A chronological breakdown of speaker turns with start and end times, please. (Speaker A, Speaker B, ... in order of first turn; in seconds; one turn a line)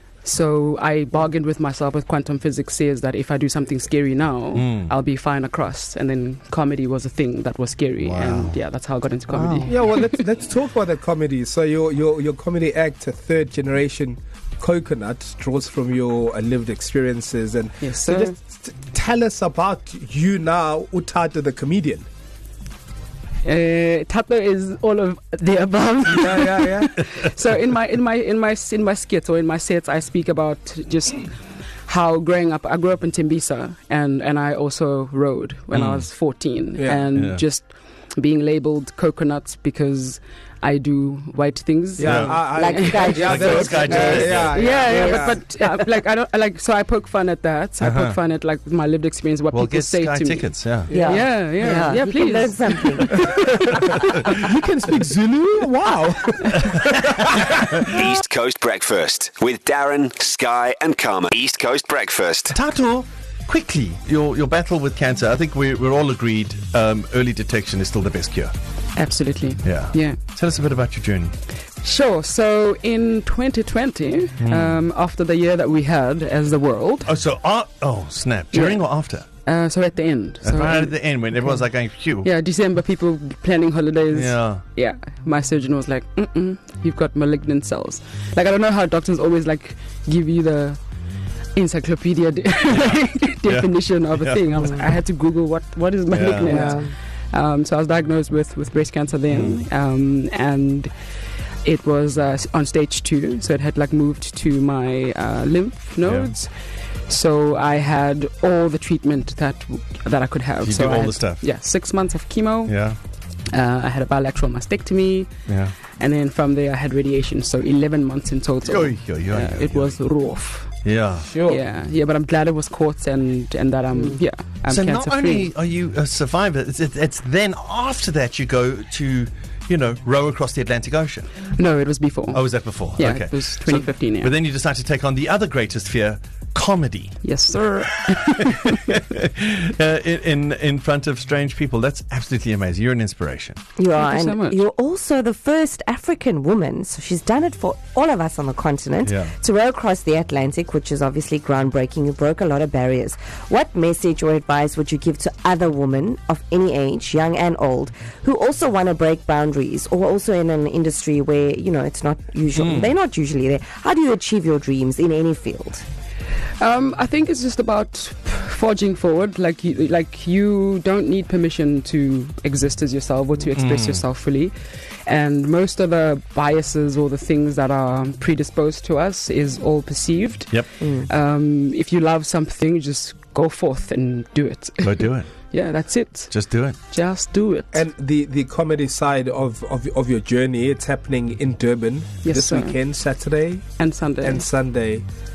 Speaker A: 0.2-10.3
Speaker B: 4.5-4.9
Speaker B: 8.0-8.5
Speaker C: 9.3-9.6
Speaker D: 9.7-22.0
Speaker A: 17.8-18.3
Speaker A: 23.4-31.3
Speaker D: 26.1-27.0
Speaker A: 31.9-43.5
Speaker B: 35.7-36.1
Speaker D: 36.7-37.1
Speaker B: 37.1-37.4
Speaker D: 42.0-45.5
Speaker B: 42.0-44.7
Speaker C: 42.5-45.7
Speaker A: 44.4-53.0
Speaker D: 47.8-48.1
Speaker B: 47.9-48.1
Speaker B: 49.5-51.0
Speaker D: 50.9-51.9
Speaker C: 50.9-54.0
Speaker D: 53.1-57.9
Speaker E: 57.8-62.5
Speaker B: 62.5-68.5
Speaker A: 69.0-70.2
Speaker B: 69.6-71.3
Speaker A: 71.8-77.1
Speaker B: 74.4-74.8
Speaker B: 77.0-79.2
Speaker A: 78.5-78.9
Speaker A: 79.5-81.6
Speaker B: 80.4-82.3
Speaker A: 82.2-90.8
Speaker B: 84.1-84.6
Speaker A: 91.5-100.9
Speaker B: 93.5-94.4
Speaker B: 96.1-96.6
Speaker C: 96.5-96.9
Speaker B: 99.3-99.6
Speaker A: 101.6-106.5
Speaker B: 106.0-106.3
Speaker A: 107.1-112.8
Speaker B: 110.6-111.5
Speaker B: 112.7-113.0
Speaker A: 113.5-115.3
Speaker B: 115.5-115.7
Speaker A: 115.9-120.9
Speaker B: 118.6-120.0
Speaker B: 120.8-121.4
Speaker D: 121.3-121.6
Speaker A: 121.4-125.5
Speaker B: 124.7-131.3
Speaker A: 131.4-134.3
Speaker B: 132.3-137.2
Speaker A: 137.2-139.0
Speaker B: 138.0-143.6
Speaker C: 143.8-165.8
Speaker A: 143.9-144.6
Speaker B: 149.0-149.3
Speaker B: 162.6-162.9
Speaker A: 166.6-187.8
Speaker B: 173.5-174.0
Speaker C: 180.8-181.1
Speaker B: 184.8-185.5
Speaker B: 186.3-186.8
Speaker D: 187.7-193.6
Speaker A: 192.2-192.8
Speaker A: 193.8-194.5
Speaker D: 194.2-195.0